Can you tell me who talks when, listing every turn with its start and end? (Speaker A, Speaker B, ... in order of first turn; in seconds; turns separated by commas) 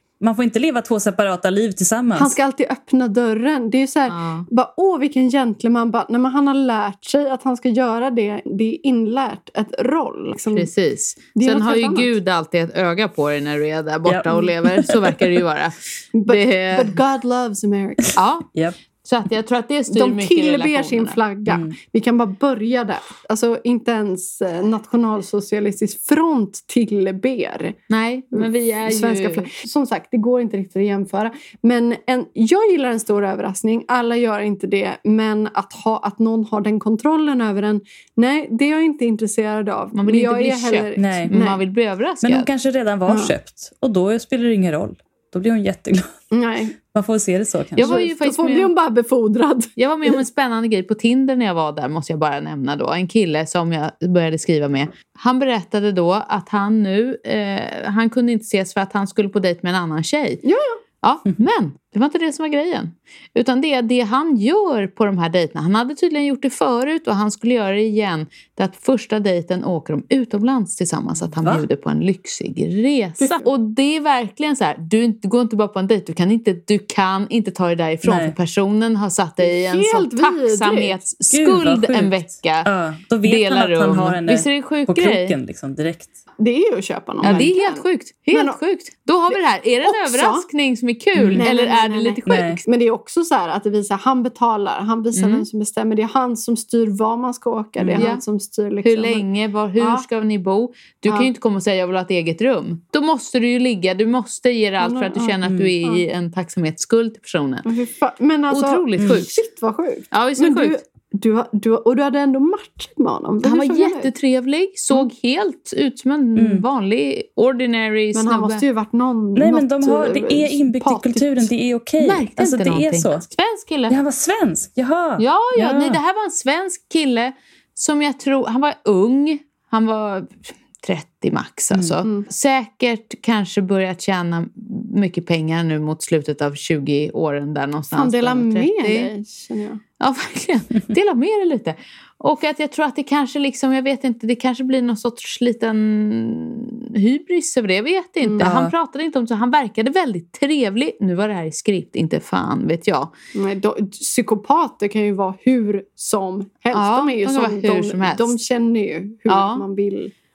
Speaker A: 0.2-2.4, Speaker B: 2.1-10.7, Speaker C: 4.1-4.5, Speaker C: 10.5-17.0, Speaker B: 11.3-12.1, Speaker A: 14.1-15.2, Speaker B: 16.1-18.2, Speaker C: 18.1-18.5, Speaker C: 19.0-21.2, Speaker B: 19.9-27.8, Speaker A: 21.5-21.7, Speaker C: 27.9-29.5, Speaker B: 28.4-41.6, Speaker C: 39.9-42.5, Speaker A: 41.0-41.3, Speaker A: 42.2-46.1, Speaker B: 43.1-43.3, Speaker B: 46.3-46.8, Speaker A: 46.9-47.9, Speaker C: 47.8-48.7, Speaker B: 47.8-50.2, Speaker C: 49.8-60.4, Speaker B: 60.5-60.8, Speaker C: 61.0-82.7, Speaker B: 73.2-73.5, Speaker A: 78.0-78.3, Speaker B: 79.4-81.0, Speaker A: 81.3-86.2, Speaker C: 83.2-85.4, Speaker B: 86.4-88.6, Speaker A: 87.2-87.5, Speaker C: 87.2-92.6, Speaker B: 89.3-90.5, Speaker A: 91.2-91.5, Speaker B: 91.4-99.2, Speaker A: 92.3-92.6, Speaker C: 95.2-95.5, Speaker A: 97.8-98.1, Speaker C: 98.0-98.2, Speaker C: 98.8-107.7, Speaker B: 99.8-100.1, Speaker B: 104.8-106.0, Speaker B: 107.7-114.1, Speaker C: 108.5-109.3, Speaker C: 110.1-110.8, Speaker C: 113.4-118.6, Speaker A: 116.4-116.6, Speaker B: 118.1-121.5, Speaker A: 119.4-123.2, Speaker C: 122.0-124.0, Speaker A: 123.9-126.0, Speaker C: 125.2-139.1, Speaker B: 137.9-139.8, Speaker C: 140.0-153.1, Speaker B: 148.2-148.5, Speaker A: 148.4-148.7, Speaker B: 153.3-160.1, Speaker C: 156.7-158.3, Speaker C: 159.3-159.6